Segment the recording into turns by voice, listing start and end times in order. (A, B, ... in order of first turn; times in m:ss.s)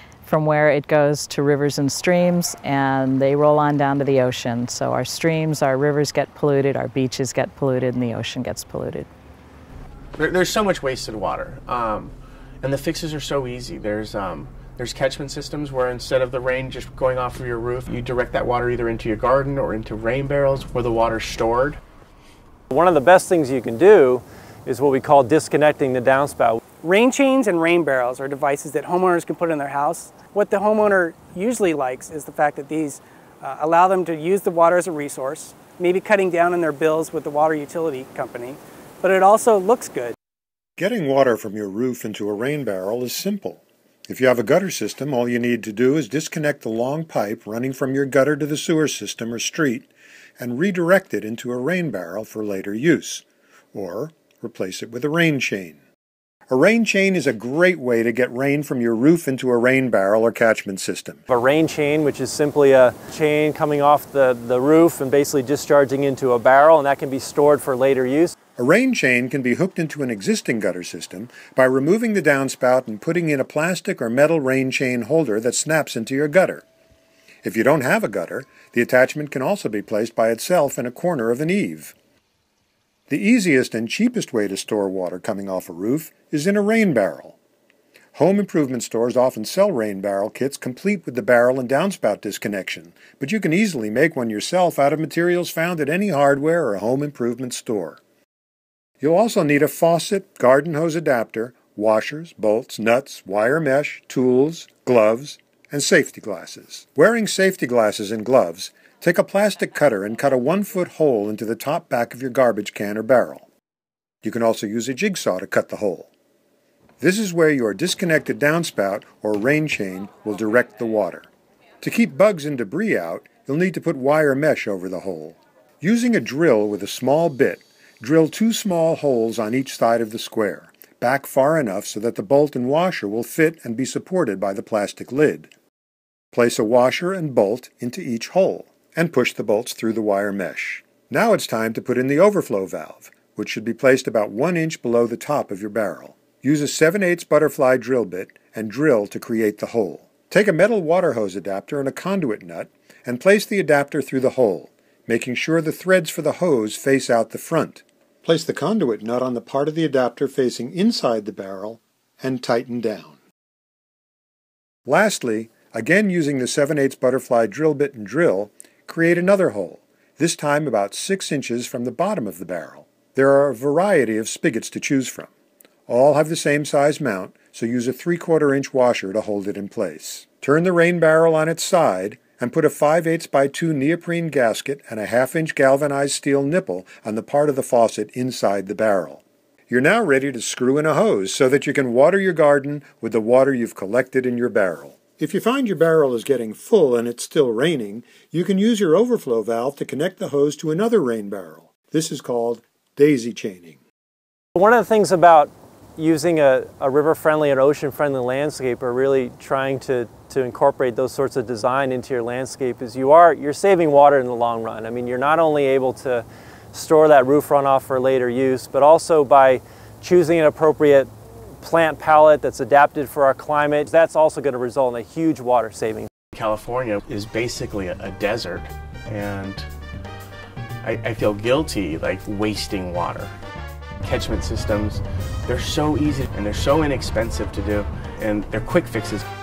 0:00.2-0:09.1 A
0:10.2-0:21.8 B
0:22.7-0:26.6 C
0:26.8-0:40.2 D
0:40.8-0:55.8 E
0:56.5-1:01.2 E
1:01.3-1:08.4 C
1:08.6-1:16.7 E
1:17.4-1:21.9 E
1:23.1-1:27.4 E
1:28.1-1:38.0 E
1:39.0-1:53.5 E
1:54.2-1:56.1 E
1:57.0-2:01.3 E
2:01.8-2:15.5 E
2:16.3-2:43.2 E
2:44.9-2:55.3 E
2:55.9-3:23.8 E
3:24.6-3:41.1 C
3:41.6-3:46.1 C
3:46.3-3:49.7 B
3:50.8-3:53.3 B
3:54.0-3:59.2 B